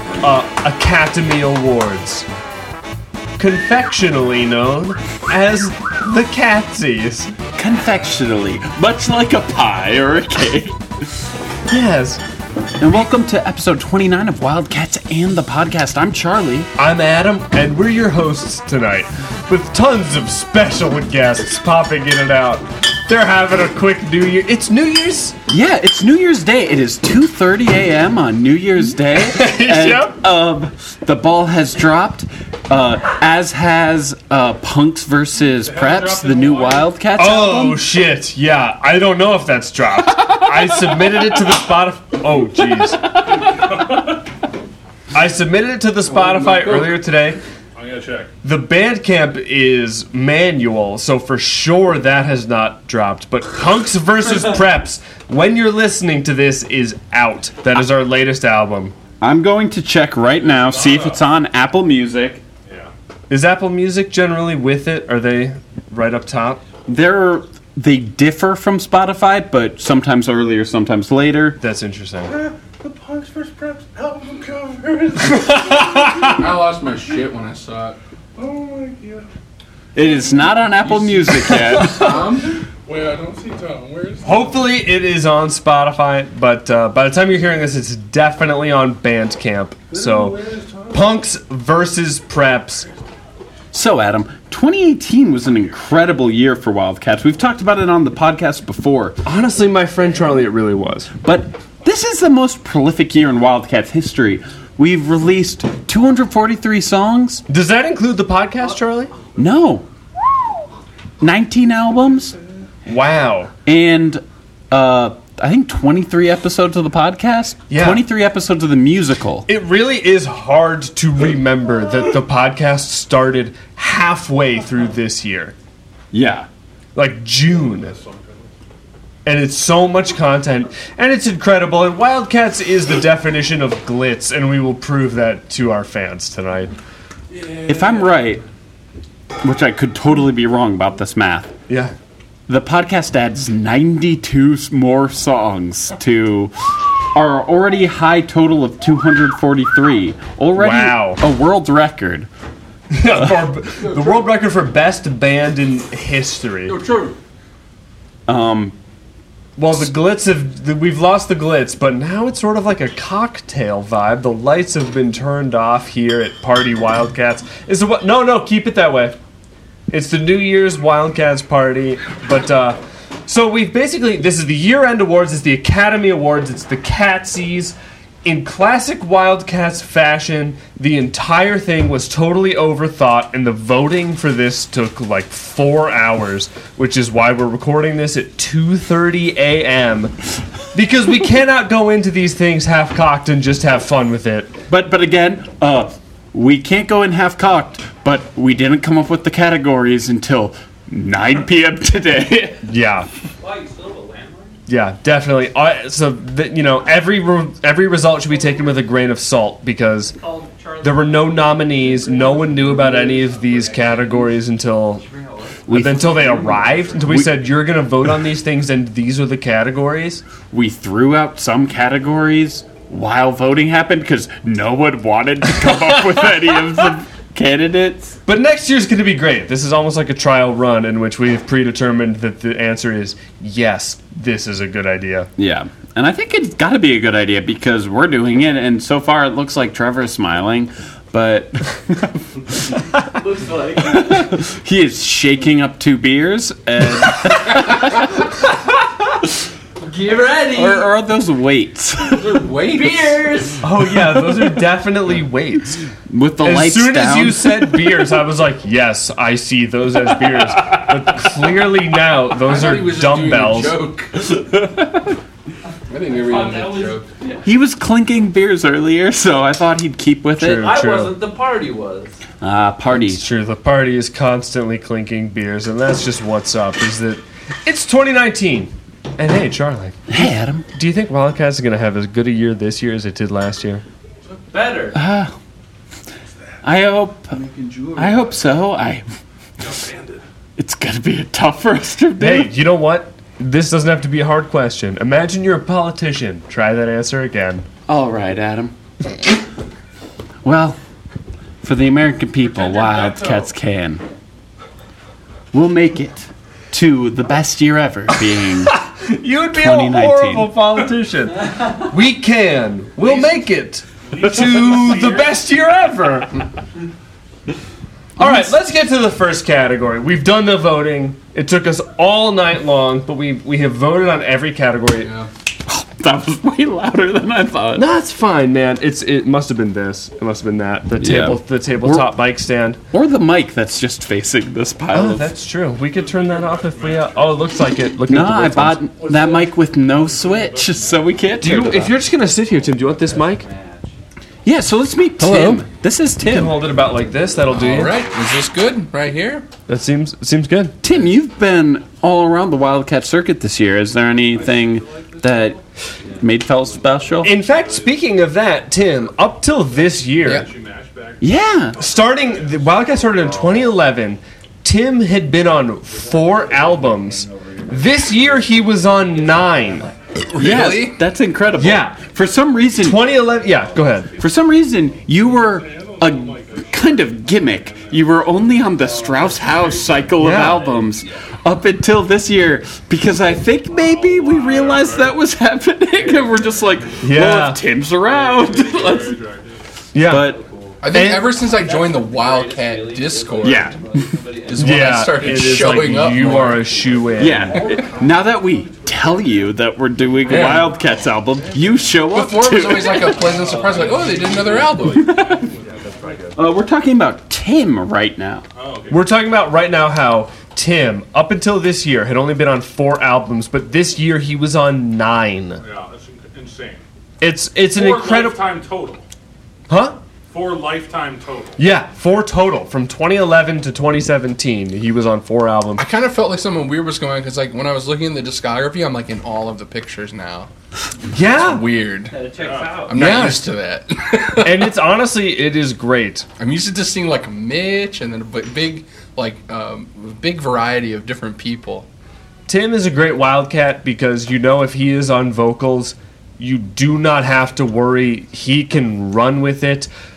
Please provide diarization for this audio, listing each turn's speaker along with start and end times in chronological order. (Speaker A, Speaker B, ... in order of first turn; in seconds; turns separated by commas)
Speaker A: 0.2-2.3, Speaker A: 3.4-7.3, Speaker B: 7.5-11.1, Speaker A: 11.7-12.2, Speaker B: 12.8-16.7, Speaker A: 16.8-25.4, Speaker B: 25.5-37.9, Speaker A: 29.2-30.2, Speaker C: 35.8-36.8, Speaker A: 37.2-43.0, Speaker B: 43.2-43.8, Speaker A: 45.1-47.4, Speaker C: 47.8-48.3, Speaker A: 48.4-59.0, Speaker B: 59.2-62.4, Speaker C: 60.7-61.1, Speaker A: 63.3-66.6, Speaker B: 66.9-71.6, Speaker A: 71.6-72.3, Speaker C: 72.8-76.1, Speaker A: 75.2-76.4, Speaker D: 76.2-78.0, Speaker C: 78.4-79.2, Speaker B: 80.0-82.1, Speaker D: 80.8-82.9, Speaker C: 82.9-84.4, Speaker A: 84.2-92.9, Speaker C: 90.0-90.9, Speaker B: 93.7-99.2, Speaker A: 99.2-101.1, Speaker B: 101.2-107.4, Speaker A: 107.5-109.1, Speaker B: 109.4-109.9, Speaker B: 111.2-112.4, Speaker A: 112.9-113.5, Speaker B: 113.6-119.5, Speaker A: 117.7-118.0, Speaker A: 119.5-125.5, Speaker B: 126.1-126.5, Speaker A: 127.0-128.0, Speaker A: 129.2-136.7, Speaker B: 137.6-138.4, Speaker B: 139.4-141.5, Speaker B: 142.5-146.5, Speaker B: 147.1-152.3, Speaker A: 150.6-151.2, Speaker A: 152.9-156.8, Speaker B: 153.0-153.4, Speaker D: 156.8-157.1, Speaker B: 158.3-158.8, Speaker A: 159.6-169.2, Speaker A: 169.9-190.1, Speaker A: 190.7-194.6, Speaker B: 194.7-202.6, Speaker A: 202.7-203.1, Speaker E: 203.4-204.6, Speaker A: 204.7-210.2, Speaker E: 210.2-214.2, Speaker A: 210.8-215.0, Speaker E: 215.0-215.6, Speaker B: 215.7-217.4, Speaker A: 215.7-220.2, Speaker B: 220.5-228.2, Speaker A: 228.2-235.3, Speaker B: 235.4-242.4, Speaker E: 243.1-244.3, Speaker B: 243.8-248.1, Speaker E: 249.8-250.9, Speaker B: 250.5-252.5, Speaker D: 252.2-253.3, Speaker E: 252.7-253.6, Speaker A: 253.6-255.8, Speaker B: 256.1-257.9, Speaker A: 256.4-263.9, Speaker D: 262.4-264.4, Speaker D: 265.9-267.1, Speaker E: 266.1-267.4, Speaker B: 267.4-270.7, Speaker A: 270.4-271.2, Speaker E: 270.4-272.2, Speaker B: 272.4-273.2, Speaker A: 272.9-283.9, Speaker B: 280.1-280.7, Speaker E: 284.5-285.0, Speaker B: 284.9-285.4, Speaker B: 286.6-287.4, Speaker E: 287.4-288.3, Speaker B: 287.9-289.1, Speaker C: 289.8-290.2, Speaker B: 290.6-292.5, Speaker A: 292.2-297.6, Speaker B: 297.9-298.8, Speaker B: 300.4-300.8, Speaker B: 301.6-304.0, Speaker B: 305.5-308.8, Speaker A: 308.7-316.4, Speaker B: 309.5-310.5, Speaker A: 318.2-325.2, Speaker B: 318.2-318.5, Speaker B: 325.6-327.9, Speaker A: 327.8-332.8, Speaker B: 331.0-332.1, Speaker B: 332.9-335.3, Speaker A: 334.9-338.9, Speaker B: 338.1-342.0, Speaker A: 341.4-343.5, Speaker E: 343.5-343.9, Speaker B: 344.4-346.7, Speaker A: 345.2-345.6, Speaker D: 345.3-345.6, Speaker A: 346.2-348.0, Speaker D: 347.5-349.5, Speaker A: 349.7-350.8, Speaker B: 350.8-355.6, Speaker B: 356.1-357.4, Speaker A: 357.2-360.5, Speaker C: 360.4-361.2, Speaker B: 361.2-361.8, Speaker A: 361.8-369.9, Speaker E: 366.3-367.7, Speaker E: 369.1-369.9, Speaker D: 370.3-371.0, Speaker B: 370.3-373.3, Speaker A: 371.6-372.0, Speaker A: 372.8-374.2, Speaker B: 374.2-389.3, Speaker C: 375.8-376.6, Speaker A: 380.2-380.7, Speaker C: 384.0-385.0, Speaker A: 387.0-387.6, Speaker C: 388.5-389.4, Speaker A: 389.9-390.4, Speaker B: 390.0-390.5, Speaker E: 390.2-390.8, Speaker D: 390.8-393.7, Speaker A: 390.9-391.4, Speaker E: 391.4-394.9, Speaker B: 393.4-394.1, Speaker D: 394.5-396.7, Speaker A: 394.6-397.8, Speaker B: 397.2-403.4, Speaker D: 400.3-400.7, Speaker D: 402.1-405.2, Speaker E: 403.3-404.6, Speaker B: 404.8-405.5, Speaker B: 406.3-408.4, Speaker C: 408.6-409.0, Speaker A: 408.9-415.6, Speaker C: 415.6-416.8, Speaker A: 417.2-418.5, Speaker C: 417.7-419.0, Speaker A: 419.7-420.0, Speaker C: 420.3-421.6, Speaker A: 421.6-425.9, Speaker D: 425.8-430.5, Speaker A: 431.1-431.6, Speaker D: 431.4-432.2, Speaker E: 432.1-433.0, Speaker D: 432.8-434.7, Speaker A: 433.0-433.4, Speaker A: 434.4-436.2, Speaker D: 436.4-441.9, Speaker A: 442.5-449.9